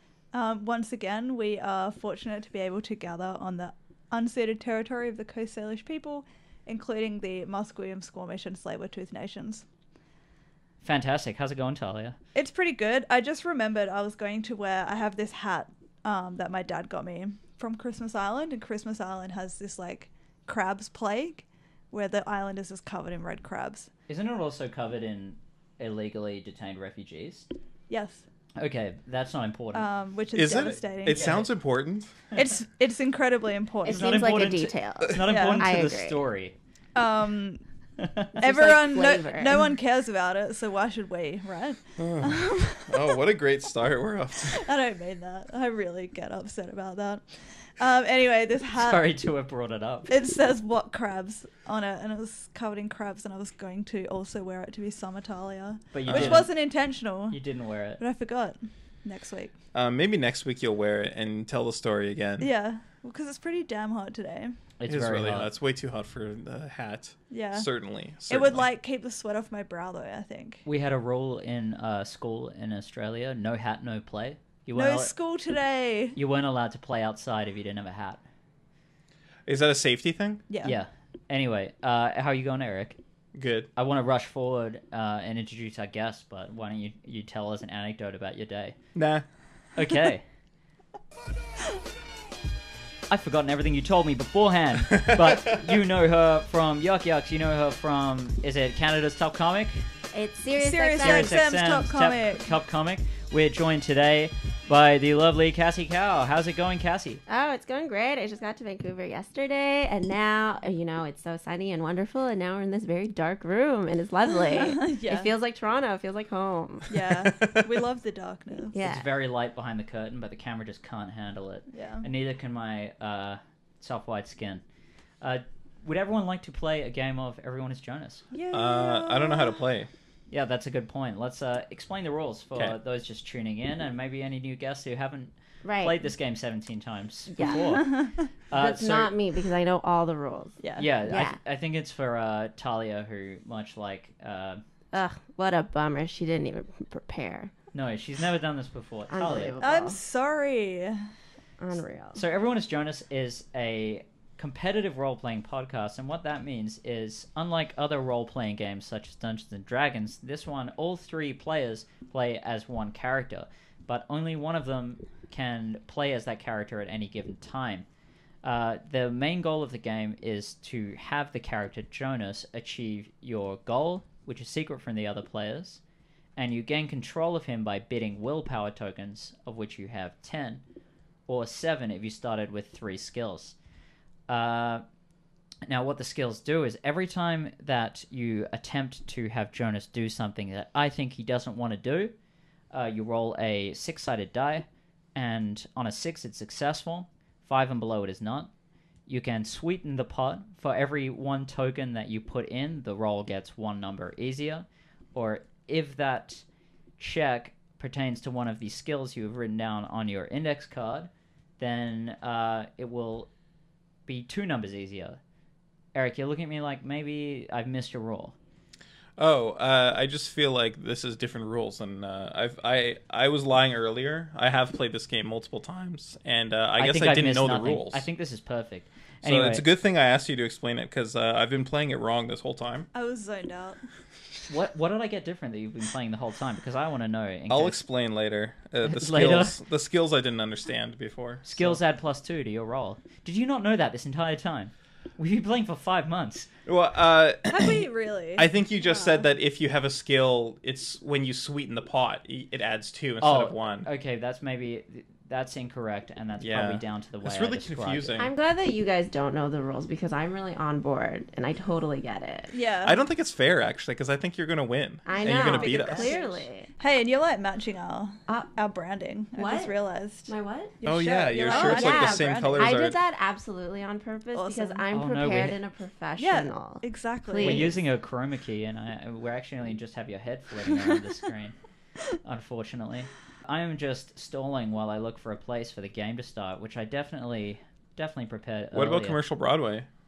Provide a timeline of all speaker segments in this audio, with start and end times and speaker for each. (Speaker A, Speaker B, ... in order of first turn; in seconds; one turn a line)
Speaker A: 0.3-9.7
Speaker B: 10.8-12.2
Speaker A: 12.3-23.9
Speaker B: 24.1-27.5
Speaker A: 27.9-28.3
Speaker B: 28.6-29.9
Speaker A: 29.7-31.4
Speaker C: 30.3-32.1
Speaker B: 31.1-31.5
Speaker A: 32.3-34.5
Speaker D: 33.9-36.2
Speaker B: 33.9-36.5
Speaker A: 35.3-35.7
Speaker A: 37.0-37.6
Speaker B: 38.0-38.4
Speaker A: 38.4-43.2
Speaker D: 38.4-39.7
Speaker C: 42.0-44.7
Speaker A: 44.5-49.1
Speaker B: 48.8-50.1
Speaker A: 50.1-57.4
Speaker B: 55.9-56.5
Speaker C: 56.1-56.5
Speaker B: 57.3-58.0
Speaker A: 58.0-59.5
Speaker C: 59.7-62.5
Speaker A: 62.4-64.5
Speaker B: 64.8-65.5
Speaker C: 64.9-68.7
Speaker A: 67.3-67.7
Speaker A: 68.3-70.6
Speaker B: 70.7-75.1
Speaker A: 74.8-76.2
Speaker B: 76.2-78.2
Speaker C: 79.5-80.4
Speaker A: 80.5-80.8
Speaker B: 80.6-83.0
Speaker C: 83.3-83.7
Speaker B: 83.8-88.8
Speaker C: 89.0-89.2
Speaker B: 89.8-90.3
Speaker B: 93.1-99.9
Speaker D: 100.1-101.4
Speaker A: 100.6-102.5
Speaker B: 101.0-107.2
Speaker D: 107.3-117.5
Speaker A: 114.3-115.3
Speaker A: 116.9-118.8
Speaker D: 118.7-119.1
Speaker B: 118.8-124.6
Speaker A: 121.7-122.1
Speaker B: 125.2-128.2
Speaker A: 128.3-129.6
Speaker C: 128.5-129.9
Speaker B: 130.3-137.9
Speaker D: 135.6-136.0
Speaker D: 137.3-137.8
Speaker A: 137.4-138.3
Speaker B: 138.5-139.1
Speaker D: 138.5-141.4
Speaker A: 140.6-140.9
Speaker B: 140.8-144.6
Speaker D: 144.9-147.5
Speaker B: 147.7-149.6
Speaker D: 149.1-150.0
Speaker A: 149.6-151.0
Speaker D: 151.6-152.2
Speaker B: 152.2-167.9
Speaker B: 168.4-175.8
Speaker B: 176.4-180.6
Speaker B: 181.3-183.6
Speaker B: 184.3-184.8
Speaker B: 185.7-192.1
Speaker B: 192.7-198.5
Speaker B: 199.1-206.4
Speaker B: 207.0-213.3
Speaker B: 214.1-215.2
Speaker B: 215.9-218.3
Speaker C: 219.2-228.1
Speaker B: 226.8-229.7
Speaker C: 229.2-232.9
Speaker A: 232.9-233.8
Speaker B: 234.5-237.8
Speaker C: 237.5-241.8
Speaker B: 238.8-239.6
Speaker B: 241.4-246.5
Speaker C: 246.7-247.8
Speaker A: 247.5-249.3
Speaker C: 248.4-253.9
Speaker B: 253.2-258.2
Speaker C: 256.4-258.3
Speaker D: 258.2-262.5
Speaker A: 262.5-263.0
Speaker C: 262.9-266.1
Speaker D: 265.1-266.7
Speaker A: 265.1-272.8
Speaker D: 269.4-269.7
Speaker D: 270.3-270.8
Speaker C: 270.9-273.0
Speaker D: 271.4-277.7
Speaker A: 274.3-274.8
Speaker B: 274.9-275.6
Speaker A: 276.2-277.8
Speaker B: 277.4-281.6
Speaker B: 282.2-289.2
Speaker C: 288.7-289.9